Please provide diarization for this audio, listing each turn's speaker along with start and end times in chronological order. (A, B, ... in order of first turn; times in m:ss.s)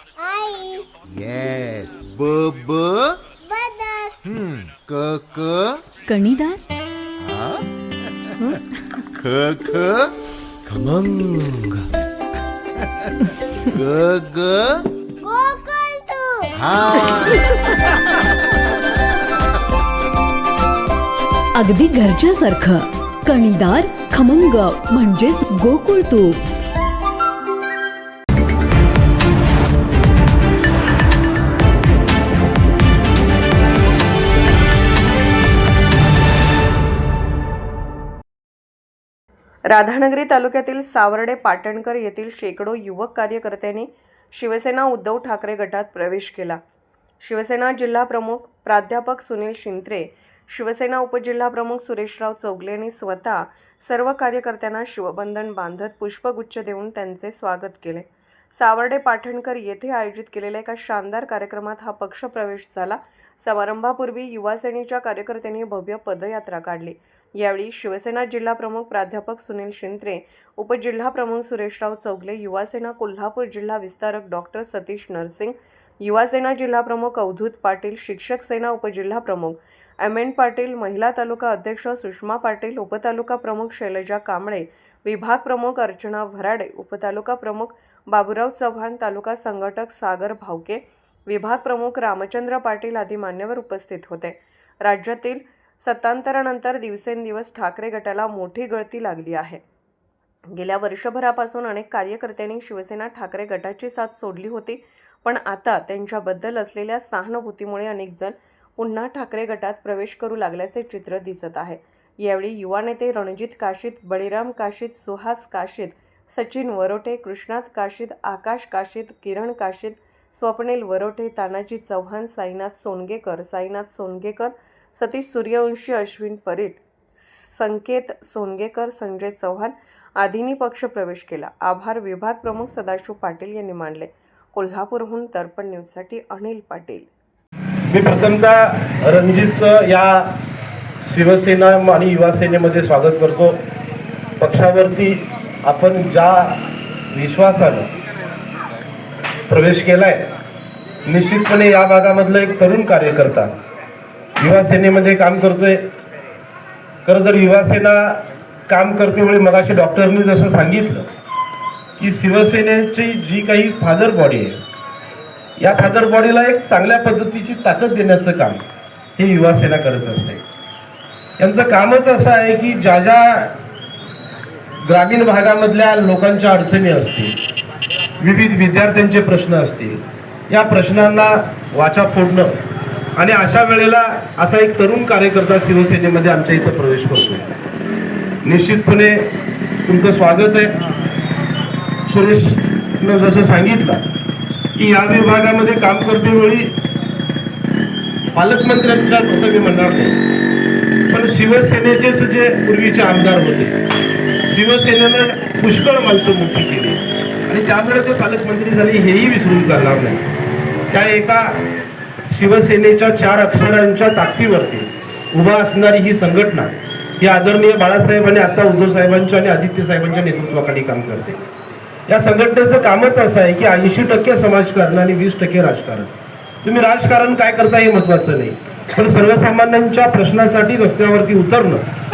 0:00.2-0:00.9 A
0:01.0-0:03.2 B
0:03.4-0:04.1 A
0:04.2-0:05.8 B
0:06.1-0:06.6 C
0:07.2-0:08.6 B
0:09.2-0:10.1 B
0:10.9-0:11.7 B
0:13.7-0:14.8 B
0:15.2-0:16.5 A
0:16.6-0:18.2 B
0:21.5-0:26.4 C
0:39.7-0:46.6 D
0:47.2-1:39.6 D
1:40.5-2:06.8 D
2:07.5-2:17.1 D
2:17.9-2:20.3 E
2:21.0-2:23.6 E
2:24.4-2:26.6 E
2:27.1-2:27.9 E
2:29.5-2:30.3 E
2:31.0-2:33.5 E
2:34.4-2:35.8 E
2:37.0-2:41.1 E
2:42.0-2:44.6 E
2:45.6-2:48.6 E
2:49.2-2:50.4 E
2:51.4-2:53.5 E
2:54.8-2:57.4 E
2:58.2-3:02.6 E
3:03.2-3:07.4 E
3:08.4-3:09.3 E
3:09.8-3:10.7 E
3:12.1-3:14.0 E
3:14.8-3:16.7 E
3:18.3-3:20.2 E
3:21.1-3:23.8 E
3:24.5-3:30.2 E
3:30.9-3:31.6 E
3:32.3-3:41.4 E
3:42.1-3:46.1 E
3:46.6-3:51.8 E